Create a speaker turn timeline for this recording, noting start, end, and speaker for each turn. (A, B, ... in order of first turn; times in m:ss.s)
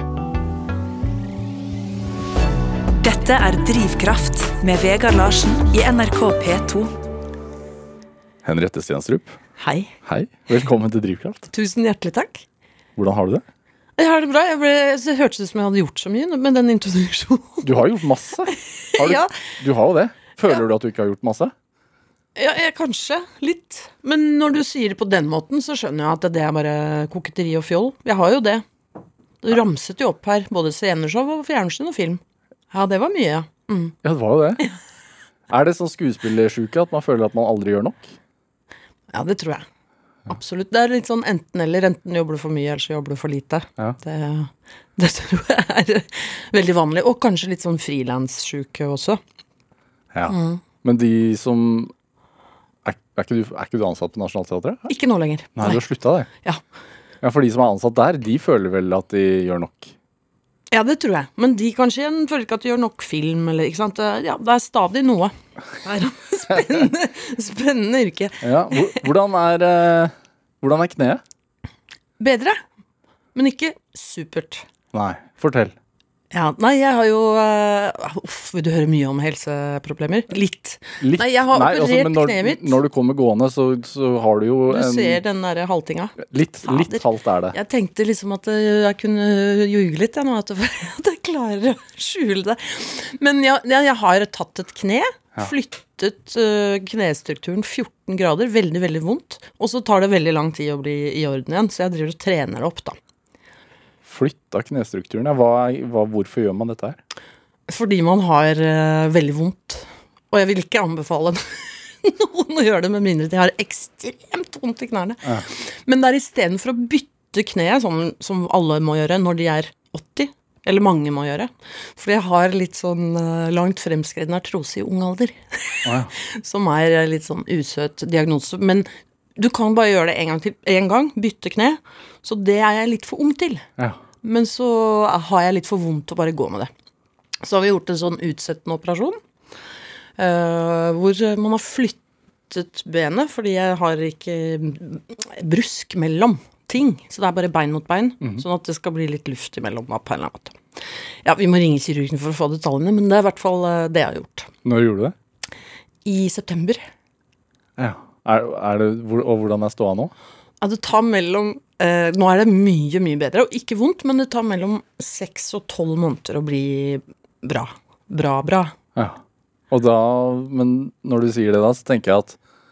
0:03.0-0:06.9 A
0:08.4-0:09.4 B
0:09.6-0:09.9 C
0:10.0-0:11.5 B
0:11.5-0:12.4 C
0:13.0-0:13.4 B
0:14.0-0:17.7 C
0:17.6-0:21.5 B
0:18.5-0:19.3 C
0:22.4-0:28.6 C
0:29.4-0:34.0 C
0:34.0-0:34.6 B
0:35.5-0:38.1 B
0:39.1-0:39.6 C
0:40.3-0:49.2 C
0:50.1-0:51.9 B
0:50.3-0:50.6 C
0:52.8-0:54.9 B
0:54.9-0:55.8 C
0:55.6-0:56.3 B
0:57.2-0:59.9 B
1:00.7-1:09.0 C
1:08.4-1:11.2 B
1:12.2-1:12.6 C
1:13.3-1:14.6 C
1:14.9-1:15.7 B
1:16.3-1:22.8 C
1:21.0-1:25.2 B
1:24.7-1:43.0 C
1:26.2-1:27.5 B
1:44.0-1:47.0 B
1:47.7-2:13.6 C
2:05.8-2:06.1 B
2:14.2-2:16.7 C
2:17.4-2:19.2 C
2:20.2-2:30.6 C
2:31.2-2:34.5 C
2:34.6-2:35.1 B
2:36.0-2:36.9 C
2:37.8-2:40.1 B
2:40.6-2:48.7 C
2:49.7-2:52.4 B